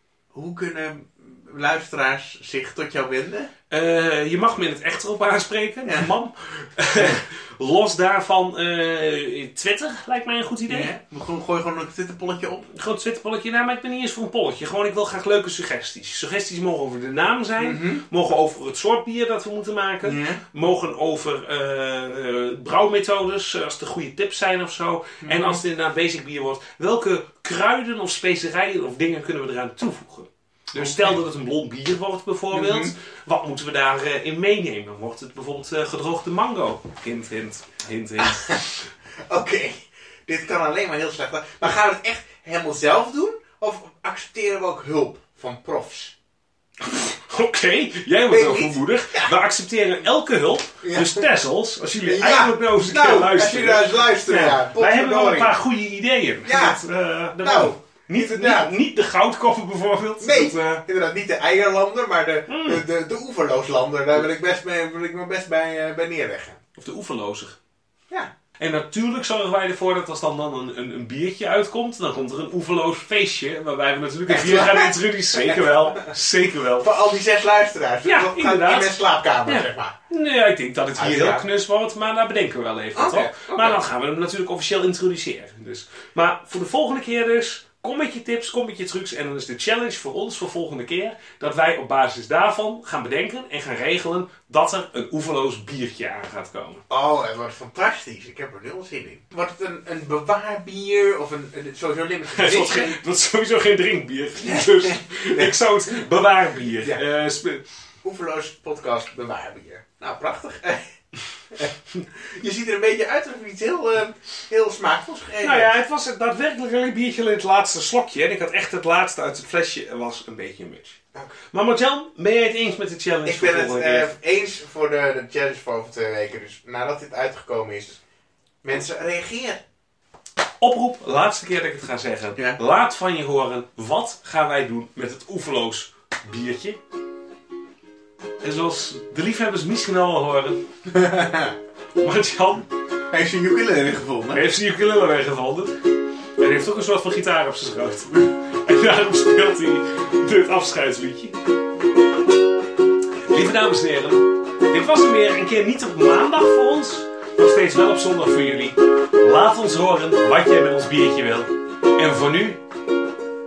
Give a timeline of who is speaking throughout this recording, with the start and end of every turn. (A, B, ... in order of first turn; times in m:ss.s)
0:00.3-0:03.5 A
0:03.7-0:10.9 B
0:05.8-0:06.1 A
0:10.7-0:12.7 A
0:12.7-0:38.6 B
0:17.6-0:18.0 A
0:20.0-0:20.4 A
0:25.2-0:25.6 A
0:30.7-0:31.2 A
0:32.5-0:32.9 A
0:38.2-0:46.1 A
0:46.8-1:00.8 B
0:48.3-0:49.3 A
0:50.8-0:51.3 A
0:52.0-0:55.6 A
0:56.4-0:56.8 A
0:57.3-0:58.7 A
1:00.2-1:06.6 A
1:02.5-1:02.8 B
1:06.8-1:07.6 B
1:08.6-1:16.9 B
1:14.3-1:16.1 A
1:16.8-1:20.0 A
1:18.0-1:36.8 B
1:20.9-1:21.4 A
1:22.9-1:23.8 A
1:36.9-1:43.0 A
1:42.3-1:47.6 B
1:44.4-1:45.5 A
1:48.0-1:50.8 A
1:51.5-1:55.7 A
1:55.4-2:01.0 B
2:01.5-2:04.2 B
2:03.2-2:08.0 A
2:08.6-2:09.6 A
2:10.6-2:16.8 B
2:18.4-2:20.6 B
2:20.9-2:21.6 A
2:22.0-2:22.7 B
2:23.1-2:24.4 A
2:24.3-2:25.8 B
2:26.4-2:31.4 B
2:33.2-2:42.6 B